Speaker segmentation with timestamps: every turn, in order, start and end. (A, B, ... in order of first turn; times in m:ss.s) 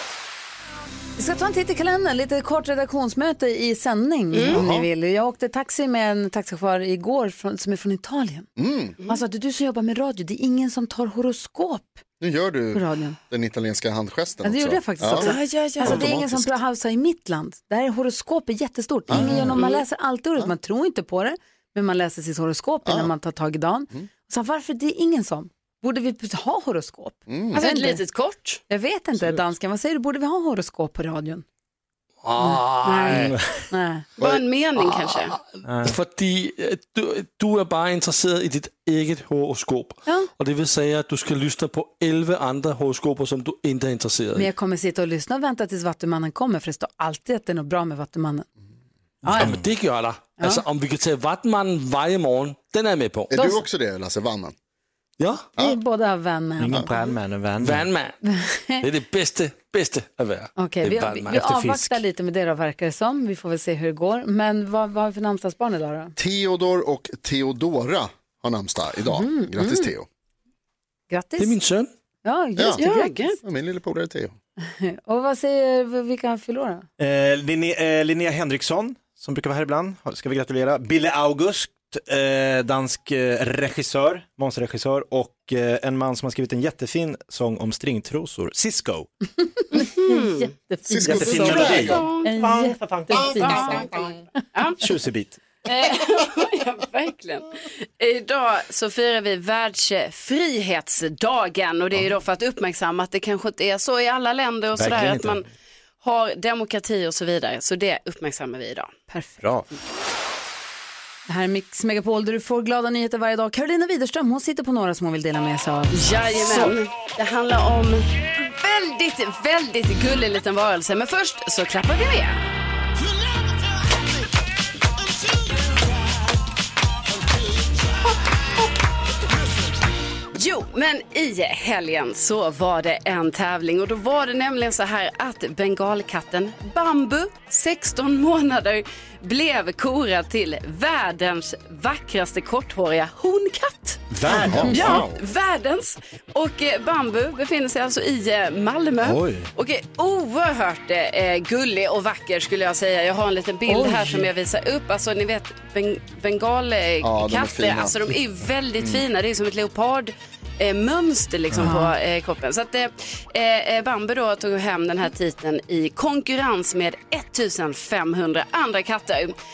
0:01.2-0:08.5 A
0:04.3-0:04.6 B
0:04.5-0:04.9 C
0:08.6-0:09.0 C
0:09.1-0:12.0 A
0:12.2-0:16.6 C
0:12.7-0:13.2 A
0:14.4-0:28.0 A
0:15.2-0:16.0 B
0:19.1-0:19.7 C
0:19.5-0:19.8 B
0:22.8-0:23.1 C
0:27.3-0:27.6 C
0:27.5-0:28.6 B
0:28.7-0:31.4 A
0:32.2-0:33.4 D
0:32.4-0:34.1 A
0:34.2-0:35.4 B
0:34.8-0:44.5 D
0:35.6-0:35.9 E
0:44.3-0:48.5 A
0:49.2-0:49.6 A
0:49.3-0:49.7 E
0:49.3-0:53.3 D
0:50.4-0:50.6 A
0:53.3-0:54.5 C
0:53.3-0:53.6 A
0:55.2-0:55.4 D
0:55.6-0:57.1 A
0:56.6-0:57.8 E
0:57.6-0:58.2 D
0:58.2-0:58.8 A
0:58.8-1:01.3 D
1:00.6-1:06.1 A
1:00.8-1:02.0 E
1:06.2-1:10.1 C
1:09.1-1:09.9 A
1:11.1-1:11.6 A
1:11.4-1:11.9 D
1:12.2-1:13.3 A
1:12.6-1:12.8 C
1:12.8-1:13.4 B
1:13.4-1:14.3 C
1:14.6-1:16.9 A
1:17.0-1:29.1 E
1:29.6-1:33.8 A
1:29.8-1:30.5 B
1:30.9-1:32.1 C
1:31.0-1:33.9 E
1:31.6-1:32.2 B
1:33.3-1:33.9 B
1:34.5-1:34.8 B
1:34.8-1:35.4 E
1:35.6-1:45.5 B
1:44.8-1:45.4 E
1:46.0-1:48.9 B
1:49.1-1:49.4 A
1:49.4-1:49.7 E
1:51.3-1:56.7 A
1:55.9-2:02.4 B
2:10.3-2:49.3 B
2:24.1-2:25.1 E
2:24.5-2:25.2 C
2:24.6-2:24.9 A
2:29.0-2:29.5 E
2:33.7-2:34.3 A
2:37.0-2:38.1 C
2:41.6-2:41.9 A